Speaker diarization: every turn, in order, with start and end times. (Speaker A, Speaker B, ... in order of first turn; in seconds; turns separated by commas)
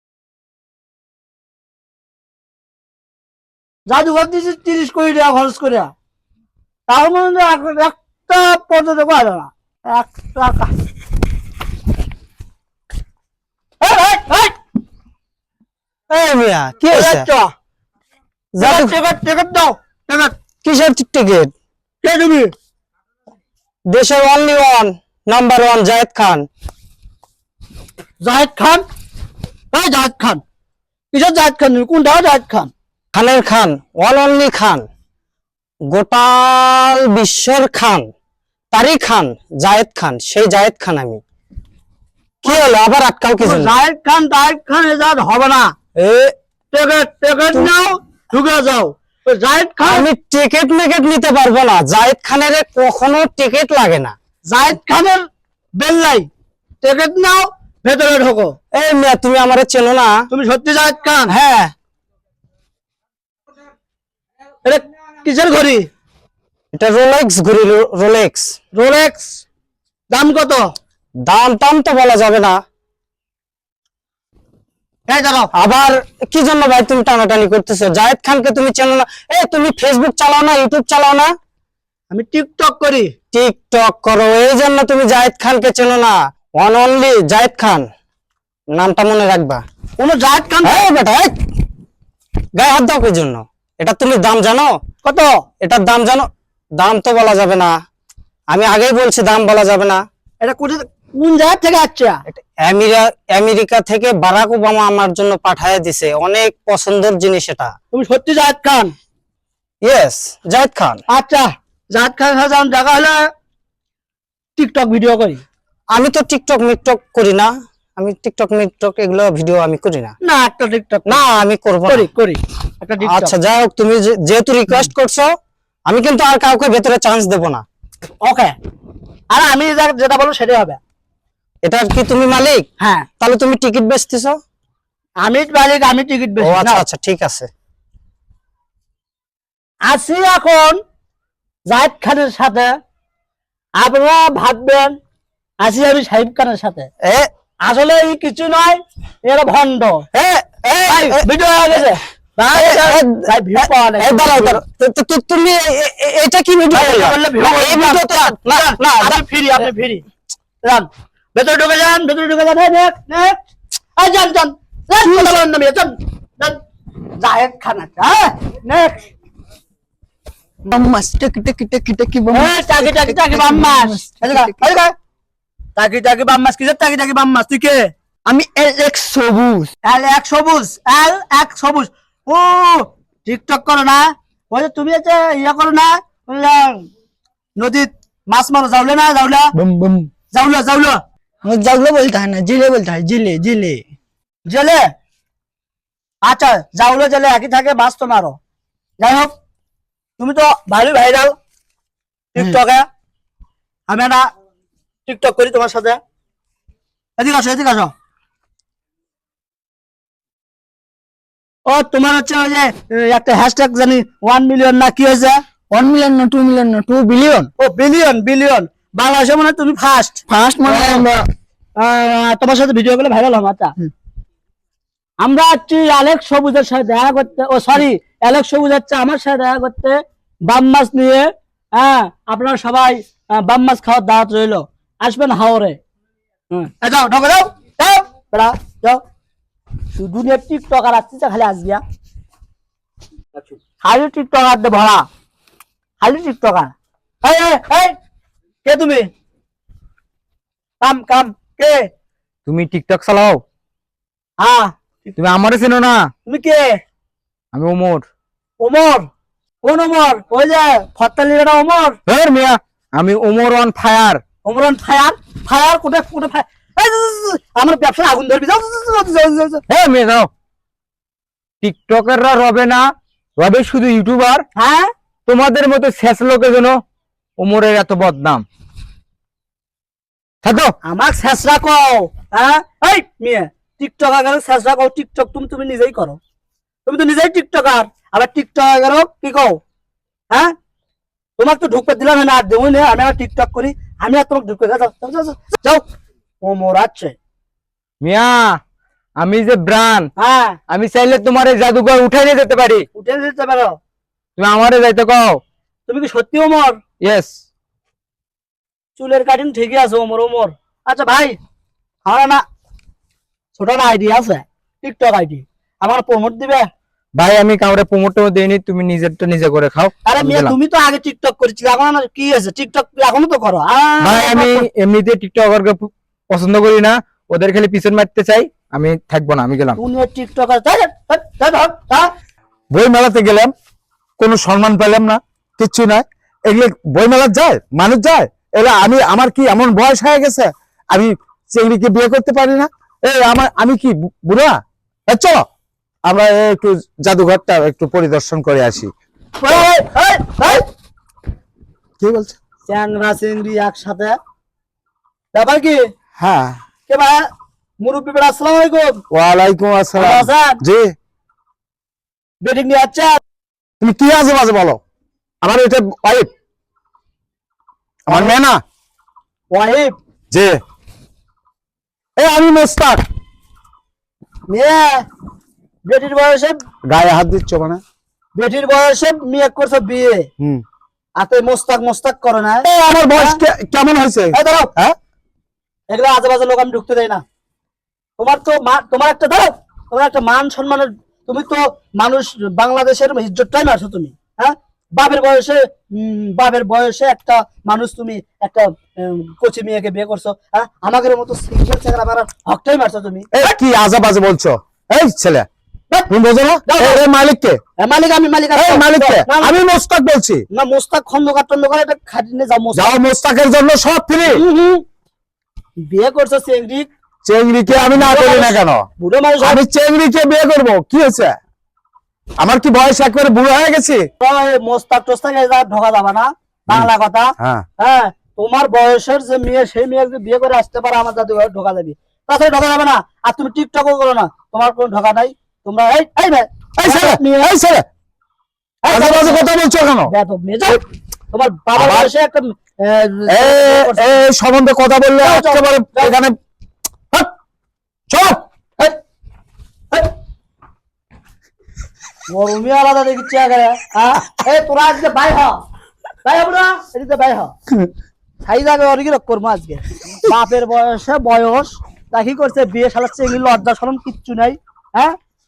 Speaker A: 3.9-5.9, Speaker A: 6.9-10.7, Speaker A: 13.8-14.5, Speaker B: 16.1-17.2, Speaker A: 16.9-17.5, Speaker B: 18.5-19.0, Speaker A: 18.6-20.3, Speaker B: 20.6-21.5, Speaker A: 22.0-22.5, Speaker B: 23.9-26.5, Speaker A: 28.2-28.8, Speaker A: 29.7-30.4, Speaker A: 31.1-32.7, Speaker B: 33.1-34.8, Speaker B: 35.9-38.1, Speaker B: 38.7-41.2, Speaker B: 42.4-43.7, Speaker A: 43.4-45.7, Speaker B: 46.0-46.3, Speaker A: 46.7-50.1, Speaker B: 49.8-54.1, Speaker A: 54.4-56.3, Speaker A: 56.8-58.5, Speaker B: 58.7-60.2, Speaker A: 60.3-61.3, Speaker B: 61.3-61.7, Speaker A: 64.6-65.9, Speaker B: 66.7-68.5, Speaker A: 68.7-69.4, Speaker A: 70.1-70.7, Speaker B: 71.2-72.6, Speaker A: 75.1-75.5, Speaker B: 75.5-81.3, Speaker A: 82.1-83.1, Speaker B: 83.3-87.9, Speaker B: 88.8-89.6, Speaker A: 90.0-90.8, Speaker B: 90.6-91.3, Speaker B: 92.5-94.8, Speaker A: 95.0-95.4, Speaker B: 95.6-97.7, Speaker B: 98.5-100.0, Speaker A: 100.4-102.2, Speaker B: 102.3-107.7, Speaker A: 107.9-108.9, Speaker B: 109.8-111.0, Speaker A: 111.1-113.2, Speaker A: 114.6-115.4, Speaker B: 115.9-120.1, Speaker A: 120.2-121.2, Speaker B: 121.1-122.0, Speaker A: 121.8-123.3, Speaker B: 123.0-125.3, Speaker B: 125.9-127.6, Speaker A: 128.2-128.5, Speaker A: 129.3-130.8, Speaker B: 131.6-132.7, Speaker A: 132.8-133.1, Speaker B: 133.2-134.4, Speaker A: 135.2-136.8, Speaker B: 136.4-137.5, Speaker A: 139.9-140.8, Speaker A: 141.7-142.7, Speaker A: 143.8-144.9, Speaker A: 145.6-146.9, Speaker A: 147.6-150.1, Speaker B: 150.1-151.2, Speaker A: 150.8-154.5, Speaker B: 152.5-159.2, Speaker A: 156.7-160.0, Speaker A: 160.6-163.4, Speaker A: 164.0-166.6, Speaker C: 165.0-165.4, Speaker A: 167.2-169.0, Speaker C: 170.7-174.7, Speaker A: 172.3-174.9, Speaker A: 175.8-177.9, Speaker C: 178.2-179.7, Speaker A: 179.8-186.8, Speaker A: 187.6-189.5, Speaker C: 189.5-190.1, Speaker A: 190.3-191.0, Speaker C: 191.4-193.9, Speaker A: 194.4-194.8, Speaker A: 196.2-198.4, Speaker A: 199.0-199.3, Speaker A: 200.2-201.3, Speaker A: 202.3-202.9, Speaker A: 203.9-204.3, Speaker A: 205.1-206.0, Speaker A: 207.2-207.9, Speaker A: 211.7-215.4, Speaker C: 215.7-217.5, Speaker A: 217.6-221.1, Speaker C: 220.3-221.2, Speaker A: 221.8-223.7, Speaker A: 225.2-235.8, Speaker A: 236.5-239.0, Speaker A: 239.9-241.8, Speaker A: 243.8-245.1, Speaker A: 246.0-247.9, Speaker A: 248.6-249.1, Speaker A: 250.8-251.9, Speaker D: 252.4-253.4, Speaker A: 254.4-255.1, Speaker D: 255.2-256.1, Speaker A: 256.2-256.8, Speaker D: 257.5-258.0, Speaker A: 258.6-259.1, Speaker A: 259.6-262.0, Speaker D: 262.1-264.2, Speaker A: 264.4-269.6, Speaker D: 269.7-270.3, Speaker D: 271.6-274.4, Speaker A: 274.5-274.9, Speaker D: 275.3-276.8, Speaker D: 277.4-278.4, Speaker D: 280.4-280.7, Speaker A: 280.8-286.2, Speaker A: 286.9-289.6, Speaker A: 291.4-295.8, Speaker A: 296.4-297.1, Speaker D: 298.0-298.6, Speaker D: 299.2-300.1, Speaker A: 300.2-300.6, Speaker D: 300.7-302.8, Speaker A: 302.9-303.8, Speaker D: 304.4-305.4, Speaker A: 305.9-306.8, Speaker D: 307.0-307.3, Speaker A: 308.9-311.4, Speaker A: 312.0-312.4, Speaker A: 313.5-316.7, Speaker D: 317.1-320.5, Speaker A: 320.0-324.6, Speaker D: 324.0-329.8, Speaker A: 329.8-332.1, Speaker E: 332.7-333.5, Speaker E: 334.2-344.6, Speaker E: 345.1-345.4, Speaker E: 346.1-348.9, Speaker A: 349.4-350.6, Speaker E: 352.0-352.4, Speaker A: 352.6-354.2, Speaker A: 355.3-355.8, Speaker E: 356.2-356.6, Speaker A: 356.9-357.3, Speaker A: 357.8-359.0, Speaker E: 359.1-360.9, Speaker A: 359.9-360.6, Speaker A: 362.4-363.2, Speaker E: 363.8-364.8, Speaker E: 365.4-366.3, Speaker A: 368.1-368.4, Speaker E: 368.1-368.6, Speaker A: 369.5-369.9, Speaker E: 370.3-370.6, Speaker E: 372.2-373.0, Speaker A: 374.5-375.0, Speaker A: 375.9-376.6, Speaker E: 376.9-377.8, Speaker A: 378.4-380.3, Speaker A: 381.2-383.4, Speaker E: 382.6-384.9, Speaker A: 384.3-384.7, Speaker A: 385.9-387.2, Speaker A: 388.2-403.4, Speaker E: 403.3-405.5, Speaker E: 406.1-407.6, Speaker A: 406.6-407.0, Speaker A: 407.8-409.6, Speaker E: 408.6-410.4, Speaker A: 410.5-412.9, Speaker E: 412.7-414.4, Speaker A: 414.3-414.8, Speaker A: 415.8-416.9, Speaker E: 417.2-418.9, Speaker A: 417.7-419.6, Speaker E: 419.4-421.4, Speaker E: 422.4-424.0, Speaker A: 424.2-437.5, Speaker E: 427.4-427.6, Speaker E: 436.8-437.8, Speaker A: 438.8-439.4, Speaker E: 438.9-440.1, Speaker A: 440.1-444.2, Speaker E: 441.8-442.1, Speaker E: 443.3-446.4, Speaker A: 445.2-446.2, Speaker E: 448.1-448.4, Speaker A: 452.3-455.6, Speaker A: 456.2-457.5, Speaker A: 458.4-465.1